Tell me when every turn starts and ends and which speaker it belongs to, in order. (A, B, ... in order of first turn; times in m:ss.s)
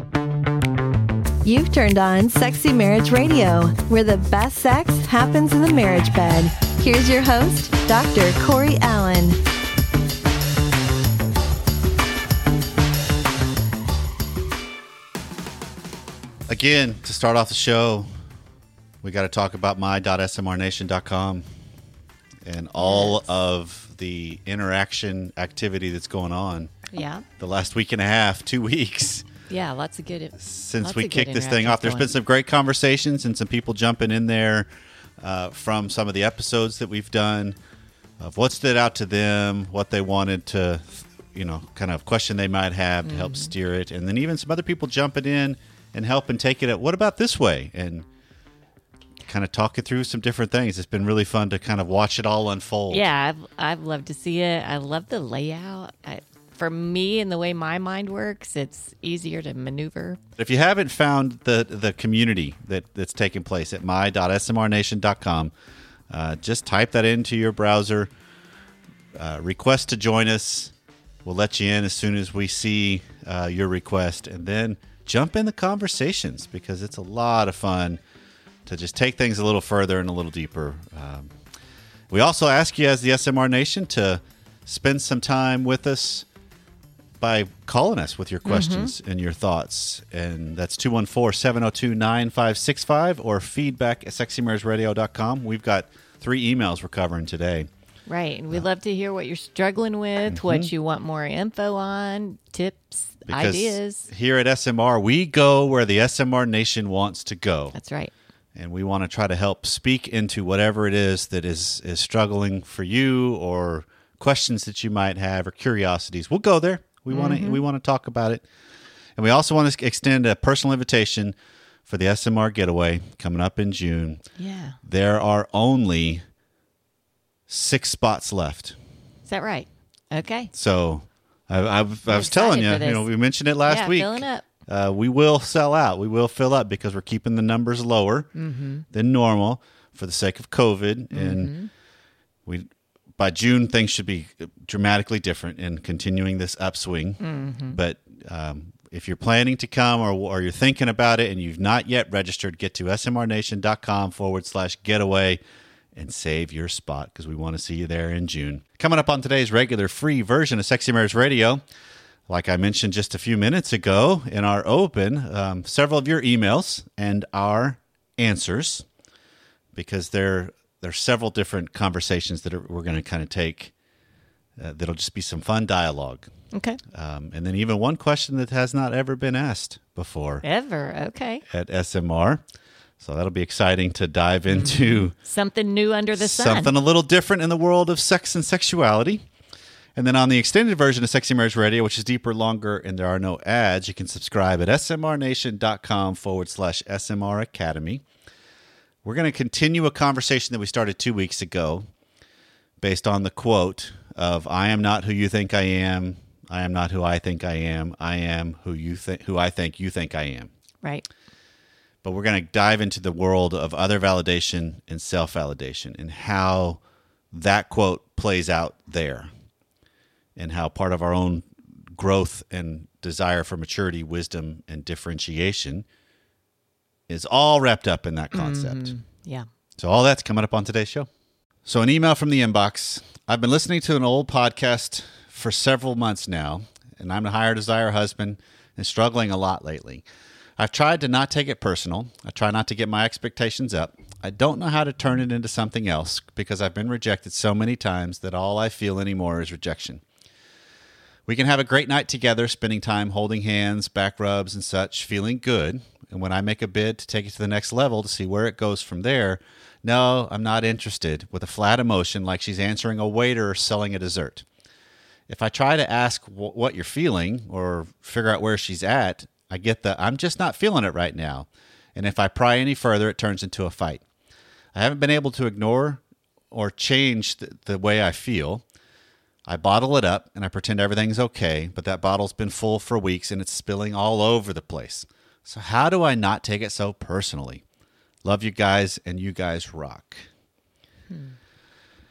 0:01.4-0:09.4 A
0:16.5-0:18.1 B
0:19.0-0:21.4 B
0:22.4-0:26.7 B
0:22.8-0:23.3 C
0:26.9-0:27.2 C
0:27.4-0:29.2 B
0:29.5-0:32.1 C
0:30.4-0:37.6 B
0:38.2-0:48.0 B
0:43.0-0:43.5 C
0:49.3-0:53.1 B
0:52.9-1:00.2 C
1:00.4-1:05.5 B
1:06.1-1:08.1 B
1:09.2-1:10.7 B
1:11.2-1:18.0 B
1:18.7-1:21.3 B
1:22.1-1:26.2 B
1:27.2-1:37.7 B
1:28.4-1:28.9 C
1:38.1-1:44.1 C
1:40.3-1:40.7 B
1:43.2-1:47.8 B
1:47.7-1:48.1 C
1:48.5-1:58.4 B
1:57.1-1:57.6 C
1:59.2-2:01.4 B
2:01.9-2:04.2 B
2:04.4-2:04.8 C
2:04.8-2:06.2 B
2:07.5-2:08.8 B
2:09.3-2:10.5 C
2:10.5-2:18.3 B
2:12.1-2:13.1 C
2:13.6-2:14.4 C
2:18.3-2:18.8 C
2:18.9-2:21.5 B
2:21.1-2:21.7 C
2:22.4-2:35.4 B
2:27.2-2:27.8 C
2:35.9-2:41.6 B
2:42.3-2:48.8 B
2:49.7-2:53.7 B
2:54.6-2:56.3 B
2:56.5-2:56.8 C
2:56.9-3:00.4 B
3:00.4-3:01.4 C
3:01.5-3:02.4 B
3:03.0-3:05.1 B
3:04.5-3:06.7 C
3:06.2-3:09.2 B
3:10.0-3:18.0 B
3:19.0-3:21.8 B
3:22.8-3:30.5 B
3:32.0-3:36.8 B
3:37.3-3:39.3 B
3:40.4-3:45.8 B
3:47.1-3:48.9 B
3:48.3-3:49.5 C
3:49.8-3:51.1 B
3:51.6-4:00.0 B
4:00.6-4:10.0 B
4:11.2-4:24.5 B
4:25.3-4:34.0 B
4:34.7-4:38.6 B
4:39.5-4:47.6 B
4:48.2-4:50.3 B
4:51.1-4:51.4 C